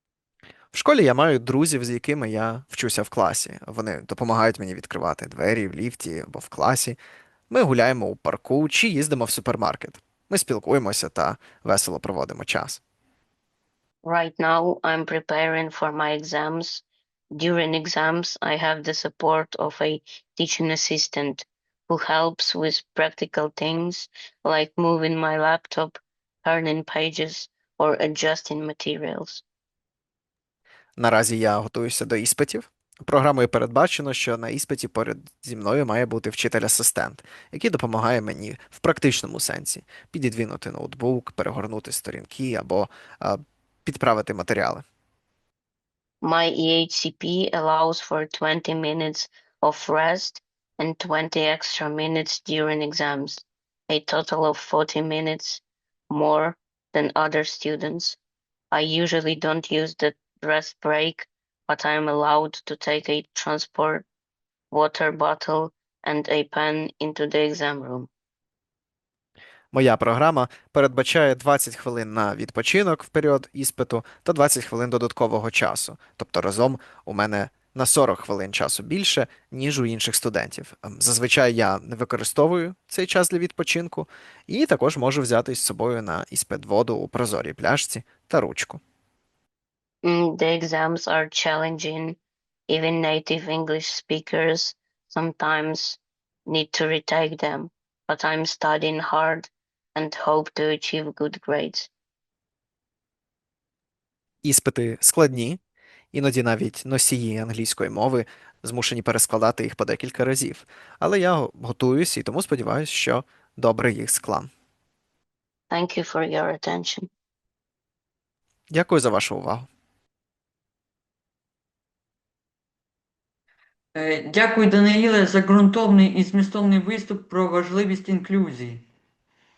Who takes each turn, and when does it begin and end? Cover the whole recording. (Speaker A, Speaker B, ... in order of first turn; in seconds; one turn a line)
Speaker A: 0.7-7.0
Speaker A: 7.5-12.8
Speaker B: 14.0-29.4
Speaker A: 31.0-44.8
Speaker B: 46.2-58.2
Speaker B: 58.7-64.1
Speaker B: 64.7-68.1
Speaker A: 69.7-88.8
Speaker B: 90.0-101.9
Speaker A: 104.4-105.6
Speaker A: 106.1-114.5
Speaker B: 115.7-117.1
Speaker A: 118.7-119.7
Speaker C: 123.9-128.8